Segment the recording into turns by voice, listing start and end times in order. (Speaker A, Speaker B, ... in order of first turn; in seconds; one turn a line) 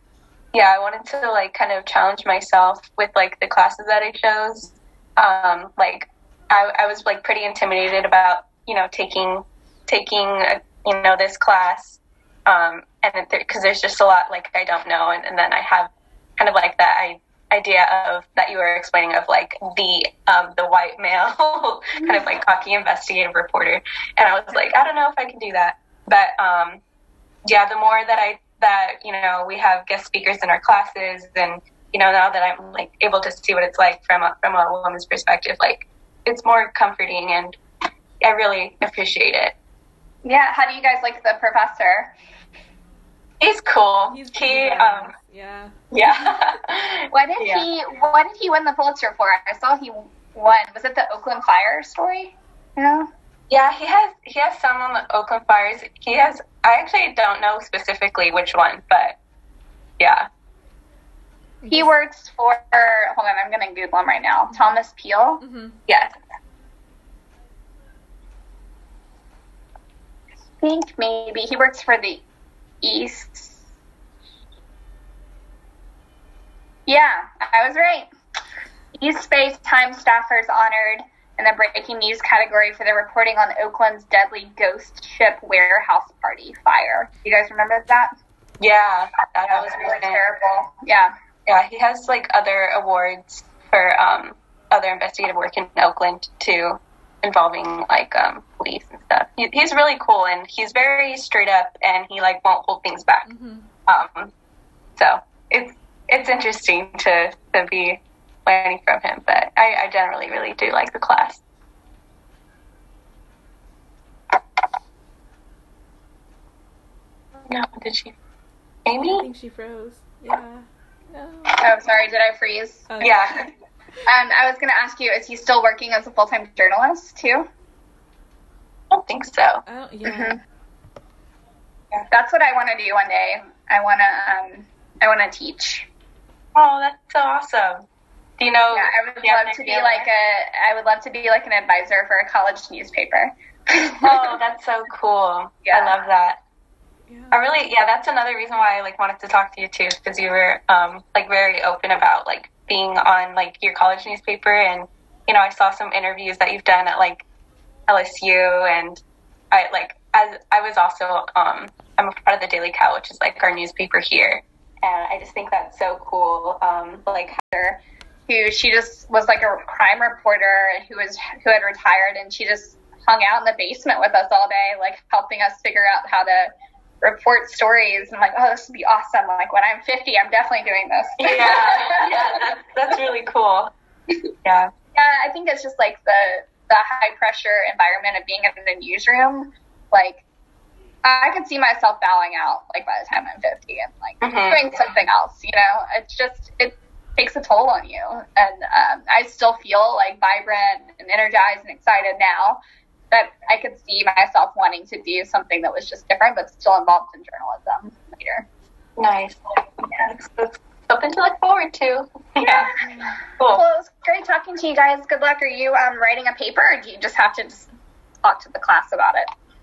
Speaker A: 0.5-26.8
Speaker A: 27.5-37.6
Speaker A: 38.2-39.5
Speaker B: 40.2-42.1
Speaker A: 43.4-45.1
Speaker C: 44.1-46.4
Speaker A: 45.9-47.6
Speaker B: 47.1-53.1
Speaker A: 53.5-59.2
Speaker A: 60.0-60.3
Speaker C: 61.6-61.9
Speaker B: 61.7-65.4
Speaker C: 64.5-64.8
Speaker C: 65.4-65.8
Speaker A: 65.9-66.2
Speaker B: 70.6-72.2
Speaker B: 72.8-73.6
Speaker B: 76.9-78.1
Speaker B: 78.9-88.1
Speaker A: 88.6-90.2
Speaker B: 89.5-91.1
Speaker A: 91.5-103.2
Speaker C: 103.2-103.7
Speaker A: 103.9-104.3
Speaker A: 105.0-111.4
Speaker A: 117.5-118.1
Speaker A: 118.8-119.3
Speaker C: 119.0-121.7
Speaker B: 121.5-123.0
Speaker C: 122.9-123.4
Speaker A: 123.0-123.5
Speaker B: 124.0-127.5
Speaker A: 128.9-129.6
Speaker C: 129.7-130.4
Speaker B: 130.0-130.4
Speaker B: 132.1-135.9
Speaker A: 136.5-137.8
Speaker A: 138.4-140.1
Speaker B: 138.7-144.4
Speaker A: 144.0-146.4
Speaker B: 145.7-145.9
Speaker C: 147.1-147.4
Speaker A: 147.3-157.2
Speaker A: 157.9-167.4
Speaker B: 167.4-182.4
Speaker A: 181.2-183.7
Speaker A: 184.4-184.7
Speaker B: 184.9-190.2
Speaker B: 191.0-202.6
Speaker A: 194.2-194.6
Speaker B: 203.1-208.4
Speaker A: 209.0-209.4
Speaker A: 209.9-212.7
Speaker B: 212.4-212.8
Speaker C: 212.8-213.2
Speaker A: 213.4-213.6
Speaker B: 213.5-217.7
Speaker B: 218.2-219.3